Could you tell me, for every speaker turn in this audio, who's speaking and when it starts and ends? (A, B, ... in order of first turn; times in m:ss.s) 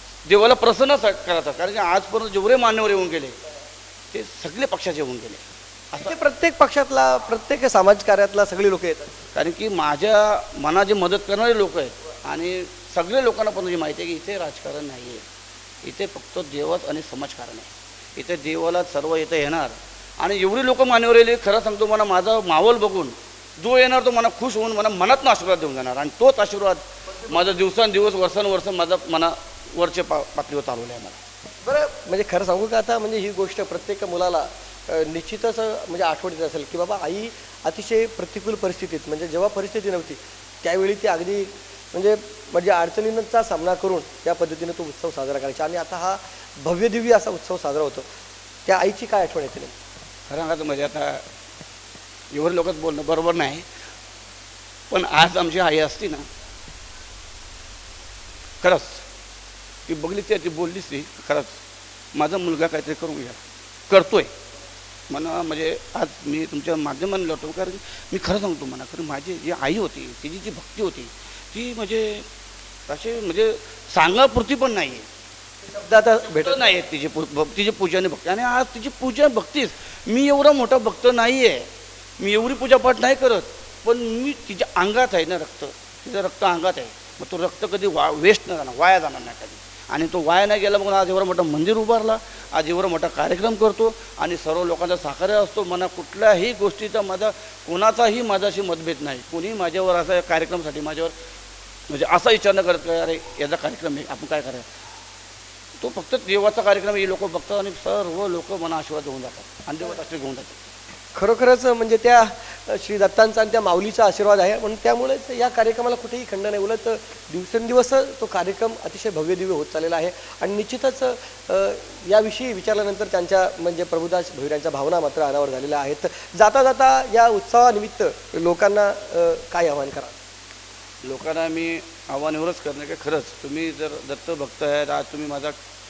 0:00.2-0:03.4 A
0:04.1-0:06.1 A
0:06.0-0:09.1 B
0:09.3-0:15.2 A
0:15.8-0:31.2 A
0:31.6-0:48.0 B
0:48.6-0:49.7 B
0:50.3-0:51.2 A
0:52.3-0:53.6 A
0:54.9-0:56.3 A
0:58.6-0:59.0 A
0:59.8-1:01.6 A
1:02.1-1:04.3 A
1:05.1-1:12.2 A
1:12.9-1:15.1 A
1:15.6-1:16.6 B
1:16.2-1:41.1 A
1:41.9-1:44.7 A
1:45.8-1:50.6 A
1:51.1-2:10.1 B
2:11.0-2:15.5 A